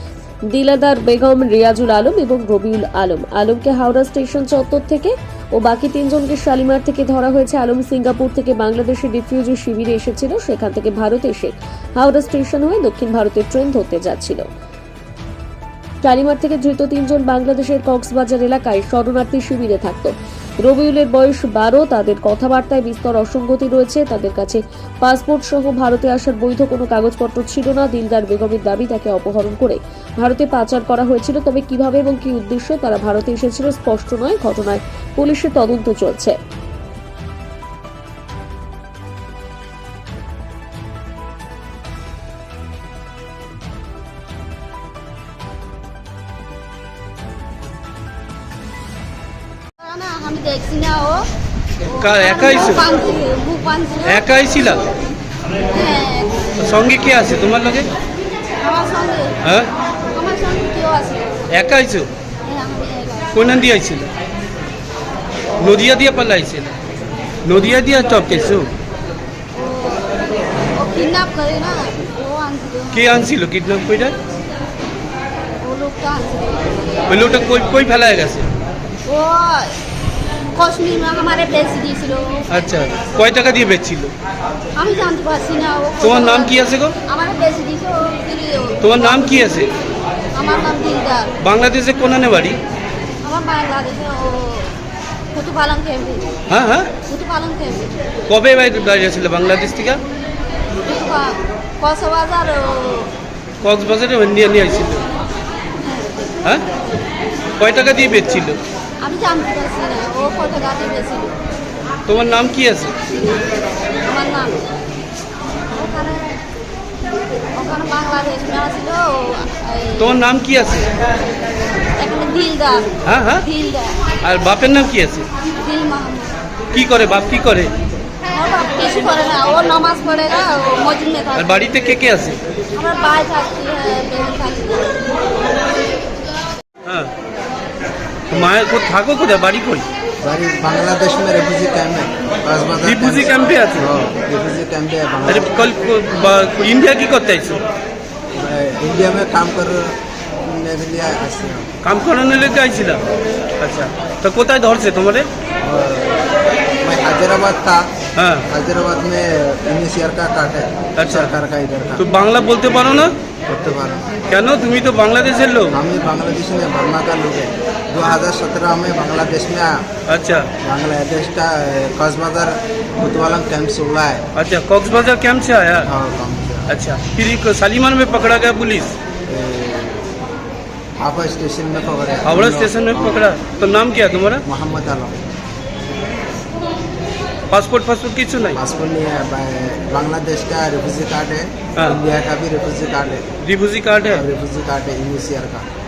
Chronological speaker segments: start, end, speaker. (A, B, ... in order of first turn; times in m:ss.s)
0:00.5-0:14.5 A
0:16.0-0:36.4 A
0:49.8-0:51.3 B
0:51.9-0:54.4 B
0:51.9-0:52.8 C
0:54.0-0:54.9 C
0:55.7-0:56.5 B
0:56.6-0:57.9 C
0:58.6-0:59.4 B
0:59.4-0:59.7 C
1:00.1-1:01.6 B
1:01.5-1:02.1 C
1:02.4-1:03.4 B
1:03.3-1:04.1 C
1:05.6-1:06.8 C
1:07.4-1:08.7 C
1:09.5-1:10.2 B
1:10.8-1:13.3 B
1:12.9-1:14.2 C
1:15.6-1:17.2 B
1:17.1-1:18.5 C
1:19.1-1:19.8 B
1:20.6-1:22.5 B
1:22.5-1:24.1 C
1:24.8-1:29.6 B
1:26.0-1:27.0 C
1:28.8-1:29.7 C
1:30.3-1:31.3 B
1:31.4-1:32.6 C
1:33.2-1:34.8 B
1:35.3-1:36.4 B
1:36.5-1:37.0 C
1:37.0-1:38.0 B
1:38.3-1:40.0 C
1:40.9-1:43.1 B
1:43.6-1:45.1 C
1:45.8-1:46.3 B
1:47.6-1:48.6 C
1:49.0-1:51.4 B
1:52.1-1:53.1 C
1:54.0-1:54.6 B
1:55.7-1:56.3 B
1:57.6-2:00.2 B
2:00.0-2:00.9 C
2:02.0-2:04.0 B
2:03.0-2:03.4 C
2:04.2-2:05.3 C
2:05.6-2:06.4 B
2:06.7-2:07.7 C
2:08.3-2:11.7 B
2:11.4-2:12.4 C
2:12.8-2:15.0 B
2:16.8-2:17.1 C
2:18.3-2:19.9 C
2:20.2-2:25.5 D
2:22.8-2:23.9 C
2:25.3-2:27.6 C
2:28.4-2:31.7 D
2:31.8-2:33.0 C
2:33.6-2:35.3 C
2:35.6-2:36.3 D
2:36.8-2:37.9 D
2:38.2-2:38.5 C
2:38.5-2:42.0 D
2:41.0-2:41.4 C
2:42.0-2:43.2 C
2:43.5-2:44.1 D
2:44.3-2:45.8 C
2:45.7-2:49.8 D
2:50.1-2:50.5 C
2:50.6-2:54.2 D
2:54.4-2:55.9 C
2:55.9-2:56.8 D
2:56.7-2:59.0 C
2:59.3-3:00.1 D
3:01.0-3:03.3 D
3:02.2-3:04.4 C
3:04.5-3:05.2 D
3:07.5-3:08.6 C
3:08.6-3:13.3 D
3:13.4-3:14.2 C
3:14.1-3:15.7 D